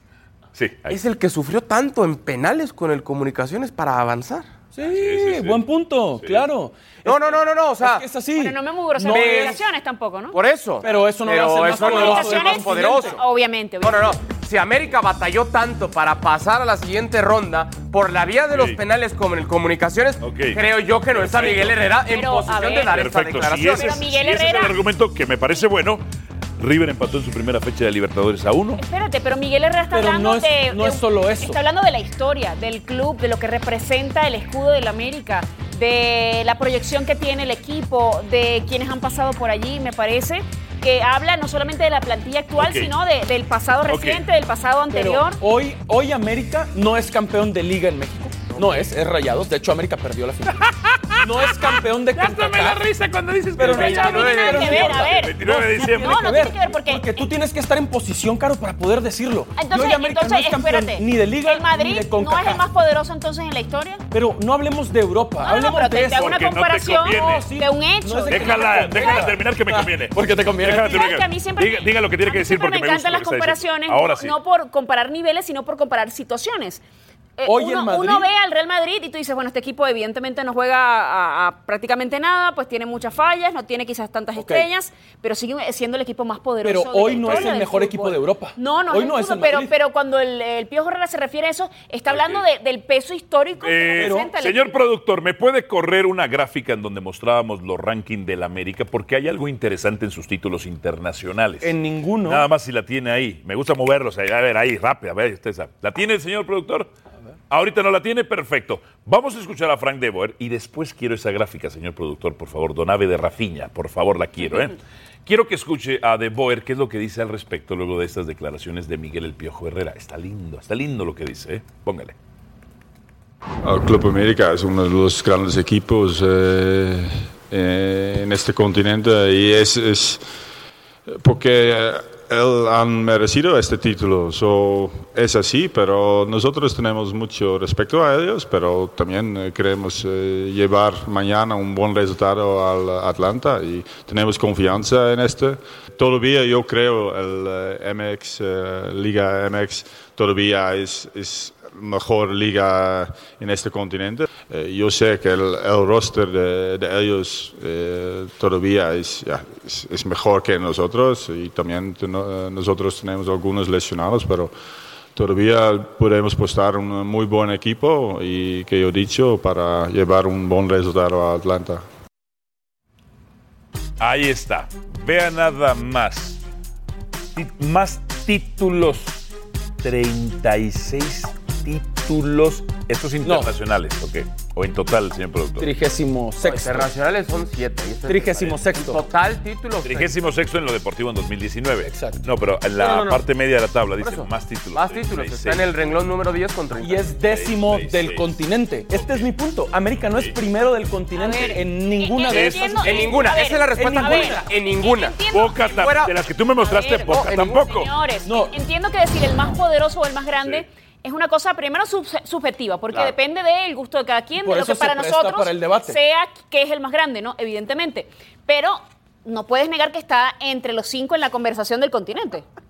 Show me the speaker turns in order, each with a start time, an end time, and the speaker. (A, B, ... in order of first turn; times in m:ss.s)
0:00.5-0:01.0 A
0:00.9-0:04.5 B
0:04.7-0:09.6 C
0:04.8-0:05.6 A
0:06.2-0:06.5 A
0:07.0-0:08.0 B
0:08.4-0:10.4 D
0:09.1-0:09.6 B
0:10.3-0:13.2 B
0:10.8-0:13.2 C
0:11.7-0:14.2 D
0:13.8-0:24.0 B
0:18.5-0:18.8 A
0:20.2-0:21.8 A
0:22.1-0:23.1 D
0:22.8-0:26.0 A
0:23.7-0:24.8 D
0:26.6-0:28.8 A
0:28.8-0:45.4 D
0:29.9-0:31.6 C
0:42.6-0:42.9 A
0:43.9-0:44.2 A
0:44.9-0:50.6 C
0:48.5-0:48.8 B
0:50.7-0:56.4 A
0:51.2-0:52.9 C
0:53.6-1:02.6 C
0:53.6-0:57.2 D
0:59.6-1:04.0 D
1:04.1-1:06.3 C
1:05.4-1:09.3 D
1:06.1-1:07.5 A
1:07.0-1:11.1 C
1:08.3-1:14.3 A
1:10.8-1:16.8 D
1:17.4-1:34.8 D
1:17.4-1:18.3 C
1:24.4-1:24.7 C
1:26.6-1:29.7 C
1:27.1-1:27.6 A
1:32.1-1:32.4 A
1:33.6-1:46.9 A
1:34.0-1:34.3 C
1:41.6-1:42.5 C
1:47.5-2:02.1 A
2:03.6-2:10.2 E
2:11.1-2:44.5 E
2:45.1-2:51.8 E
2:54.0-2:56.4 A
2:57.3-2:59.2 A
2:59.8-3:05.7 A
3:03.2-3:03.5 C
3:05.6-3:06.9 C
3:06.4-3:10.1 B
3:08.1-3:09.0 C
3:09.8-3:15.7 A
3:11.8-3:13.2 C
3:14.0-3:17.1 B
3:16.8-3:24.5 C
3:17.2-3:18.2 A
3:18.9-3:19.2 A
3:20.1-3:20.3 A
3:21.1-3:25.8 D
3:22.2-3:23.0 A
3:22.8-3:26.1 B
3:25.3-3:27.9 A
3:26.6-3:42.4 D
3:27.1-3:27.6 B
3:28.2-3:28.5 C
3:30.4-3:30.6 A
3:34.4-3:36.0 C